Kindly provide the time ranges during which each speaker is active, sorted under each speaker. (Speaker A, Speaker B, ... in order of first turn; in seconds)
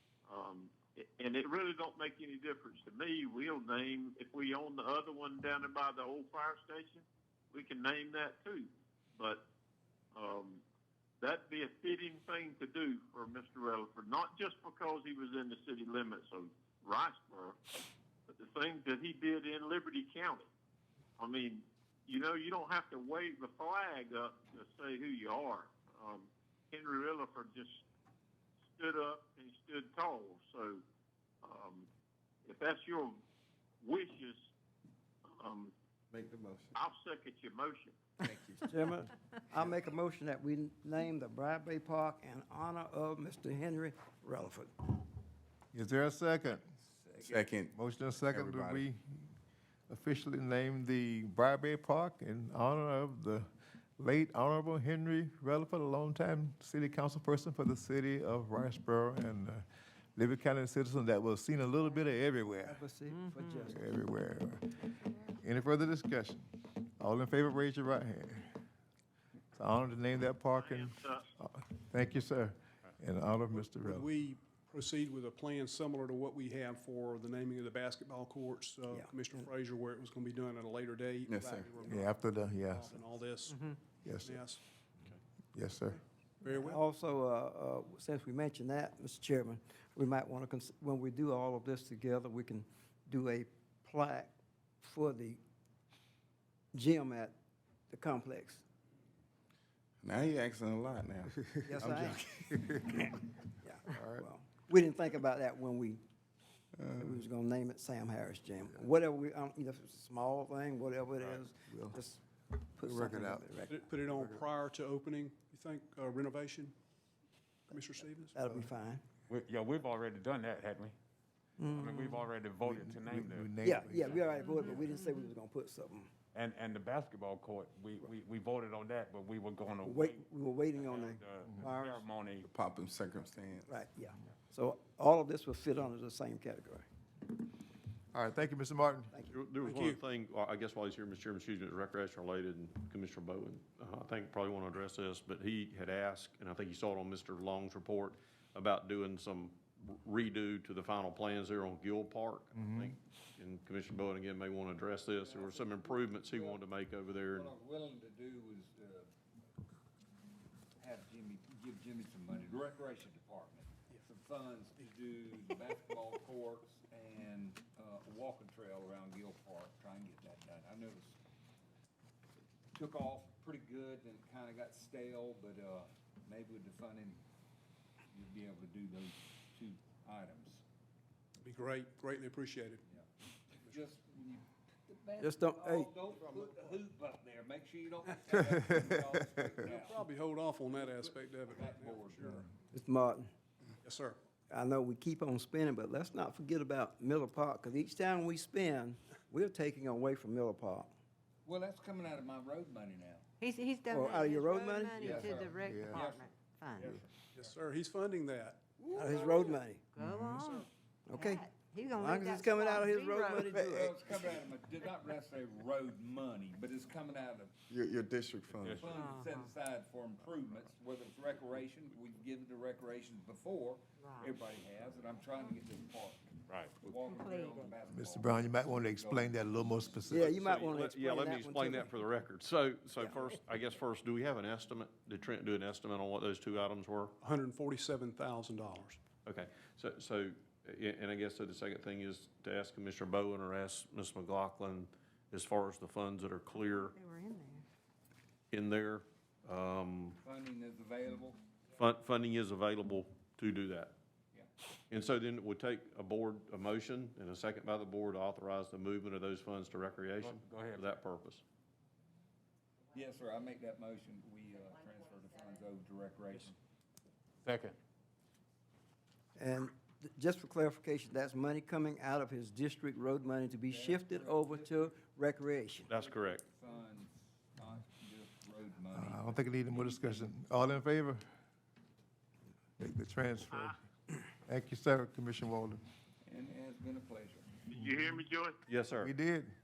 Speaker A: 0.2-9.4, 10.1-10.6, 11.2-17.6, 18.3-20.5, 21.2-27.8, 28.8-30.8, 31.4-31.9, 32.4-33.2, 33.8-34.4, 35.2-35.7, 36.7-38.0, 70.5-71.2, 287.7-288.6
Speaker B: 36.1-36.7, 38.2-38.6, 47.2-48.8, 81.3-81.7, 100.0-102.8, 104.0-104.3, 106.8-107.2, 132.4-133.7, 217.7-219.1
Speaker C: 38.6-44.9, 61.9-63.9, 78.9-79.5, 81.3-82.1, 86.5-95.4, 96.7-97.3, 97.9-98.6, 101.6-102.8, 103.6-106.0, 106.9-113.9, 118.3-119.0, 121.6-122.3, 123.6-126.1, 129.8-132.0, 133.7-136.8, 185.2-186.1, 192.7-193.3, 194.5-200.9, 203.9-205.2, 208.9-209.8, 211.1-214.0, 230.1-231.9, 269.4-275.9
Speaker D: 45.7-46.6, 47.7-49.2, 49.9-53.5, 54.0-59.6, 60.1-62.8, 63.7-66.5, 67.0-68.5, 69.5-74.1, 81.9-82.9, 84.0-84.4, 85.5-86.0, 112.8-113.4, 122.7-124.8, 138.1-139.1, 152.5-152.9, 205.1-206.0, 210.0-210.5, 227.9-230.3, 278.9-281.2, 282.8-283.8, 284.4-285.8, 287.8-288.0, 289.0-289.5
Speaker E: 46.9-47.5, 155.2-156.6, 157.3-159.1, 160.8-171.2, 172.7-177.2, 178.1-180.6, 183.6-192.5, 201.4-203.2, 204.0-204.2, 204.8-207.6, 208.8-209.7, 213.6-217.5, 218.7-230.1, 250.2-251.4, 262.9-266.6, 273.6-274.9, 275.9-280.3, 286.2-287.5
Speaker F: 73.5-84.6, 86.4-86.8, 113.7-116.7, 117.7-118.6, 139.6-140.0, 181.4-182.8, 186.2-186.5, 189.6-192.5, 193.8-194.2, 207.3-208.8, 210.4-210.7, 237.2-239.0
Speaker G: 111.2-111.4, 119.3-121.0, 121.6-123.5, 126.3-132.5, 218.5-219.0, 226.5-226.8, 260.2-260.9, 267.4-267.8
Speaker H: 139.3-157.5, 230.1-237.1, 239.2-246.9, 248.5-250.2, 251.8-253.9, 254.9-261.4, 275.9-276.4, 288.7-289.1
Speaker I: 203.4-206.9, 209.9-213.8, 219.0-219.5, 224.0-224.3, 226.9-227.8, 246.5-247.6